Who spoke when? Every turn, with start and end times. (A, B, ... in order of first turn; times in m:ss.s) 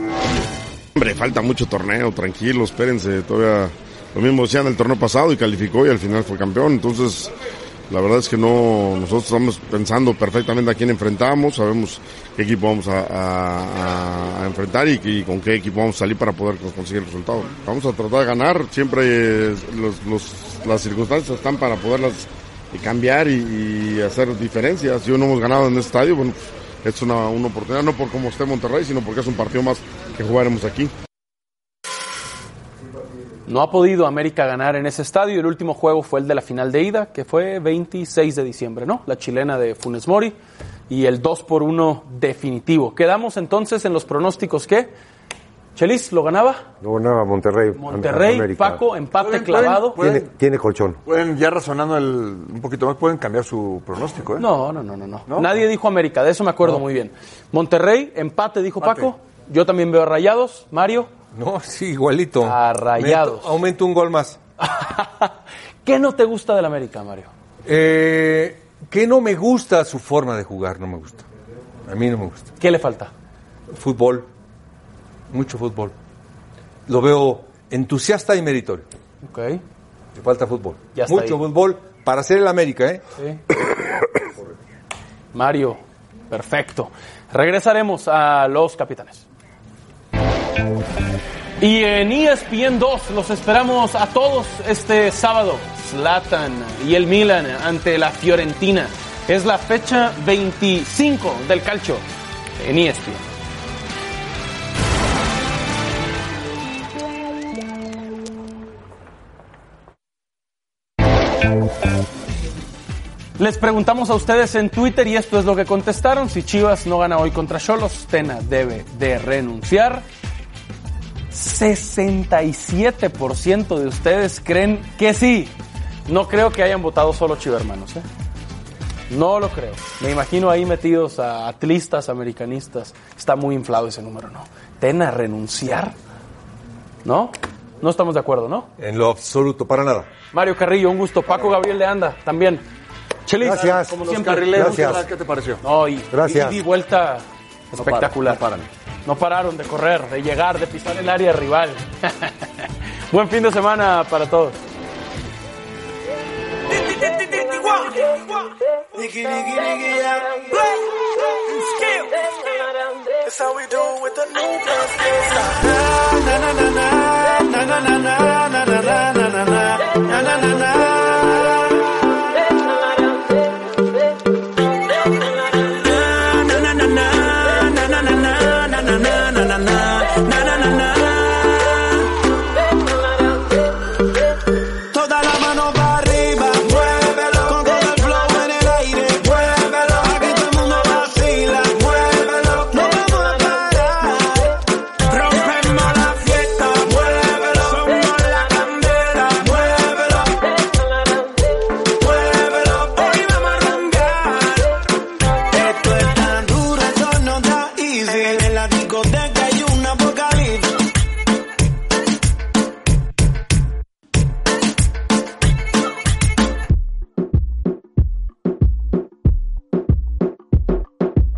0:01.0-0:07.3 A
0:07.9-0:30.9 A
0:33.5-0:40.4 B
0:40.9-0:44.9 B
0:45.8-0:46.6 B
0:46.8-0:48.8 C
0:47.8-0:50.0 B
0:49.2-0:50.2 D
0:50.0-0:51.0 C
0:51.1-0:54.5 D
0:54.4-1:01.1 B
0:55.3-0:55.6 D
0:58.8-0:59.1 D
1:01.3-1:04.4 E
1:02.4-1:03.6 B
1:04.6-1:07.3 B
1:07.7-1:11.3 E
1:11.9-1:12.5 E
1:12.6-1:13.1 B
1:13.7-1:14.3 E
1:15.3-1:15.9 E
1:16.9-1:18.8 E
1:19.2-1:19.6 B
1:20.2-1:23.0 E
1:20.9-1:21.4 B
1:25.3-1:29.2 B
1:31.6-1:42.0 B
1:42.6-1:43.3 B
1:53.4-2:00.0 B
2:01.3-2:05.6 B
2:06.1-2:08.1 B
2:09.1-2:16.0 B
2:17.0-2:18.7 B
2:18.8-2:20.1 E
2:20.3-2:22.6 B
2:23.3-2:25.0 B
2:23.4-2:24.0 C
2:24.0-2:25.6 D
2:24.5-2:25.0 C
2:25.6-2:28.4 B
2:26.1-2:26.6 C
2:27.7-2:28.7 D
2:29.0-2:34.6 B
2:36.8-2:38.2 F
2:38.9-2:40.9 F
2:41.5-2:42.2 F
2:43.2-2:51.6 F
2:55.7-3:02.1 F
3:04.9-3:20.5 F
3:22.0-3:24.8 F
3:25.5-3:30.7 F